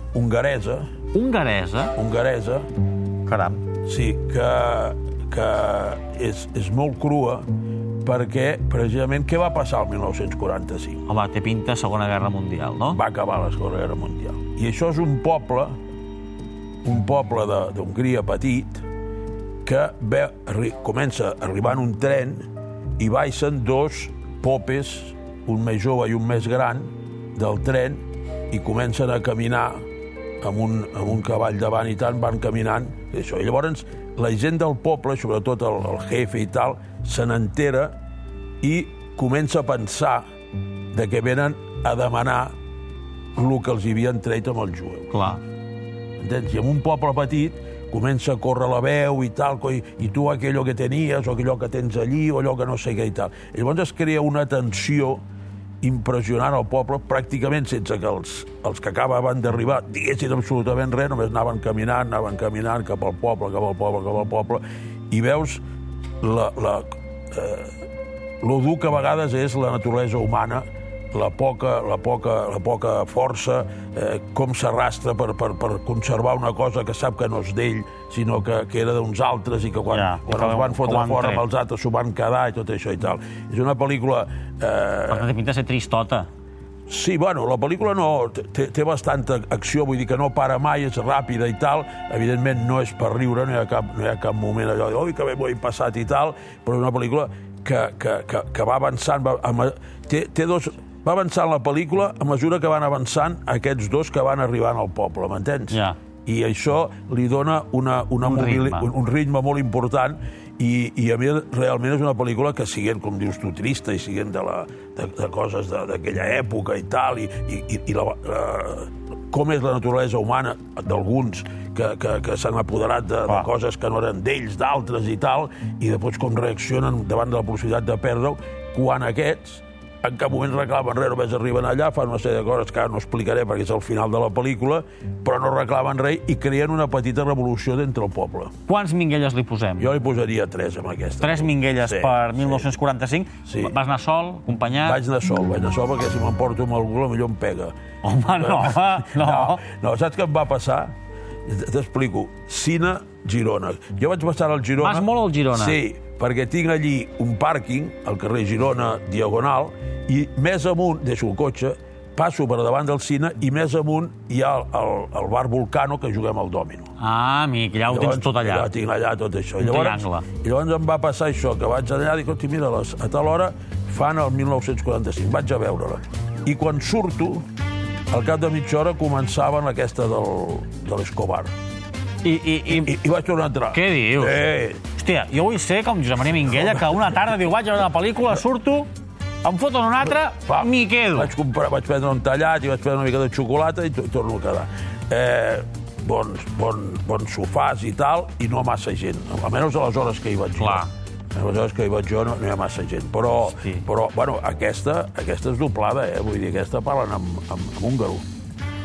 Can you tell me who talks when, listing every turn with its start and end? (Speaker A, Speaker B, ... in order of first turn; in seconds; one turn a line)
Speaker A: 0.1-0.9
Speaker B: 1.1-1.9
Speaker A: 1.9-2.7
Speaker B: 3.3-3.6
Speaker A: 3.9-7.5
Speaker A: 8.0-11.1
Speaker B: 11.1-13.0
Speaker A: 12.9-15.8
Speaker A: 16.8-18.8
Speaker A: 19.6-22.5
Speaker A: 23.0-29.8
Speaker A: 30.4-38.0
Speaker A: 38.6-40.2
Speaker A: 40.9-42.5
Speaker A: 43.4-45.2
Speaker B: 45.1-45.4
Speaker A: 46.2-55.2
Speaker A: 55.8-65.6
Speaker A: 66.2-67.7
Speaker A: 68.4-85.3
Speaker B: 79.9-81.5
Speaker B: 85.1-86.3
Speaker A: 86.9-138.5
Speaker B: 105.7-106.0
Speaker B: 108.2-108.9
Speaker B: 138.7-139.9
Speaker A: 139.8-142.7
Speaker B: 141.2-145.0
Speaker A: 143.4-143.7
Speaker A: 144.8-147.7
Speaker B: 148.0-149.6
Speaker A: 148.4-150.9
Speaker A: 151.5-166.9
Speaker B: 154.8-155.8
Speaker B: 167.0-168.7
Speaker A: 167.9-177.4
Speaker B: 169.6-170.3
Speaker A: 178.1-181.5
Speaker B: 182.2-182.9
Speaker A: 182.7-184.8
Speaker B: 183.7-188.9
Speaker A: 186.6-187.2
Speaker B: 189.4-191.3
Speaker A: 190.4-208.3
Speaker B: 200.6-200.9
Speaker B: 203.5-203.8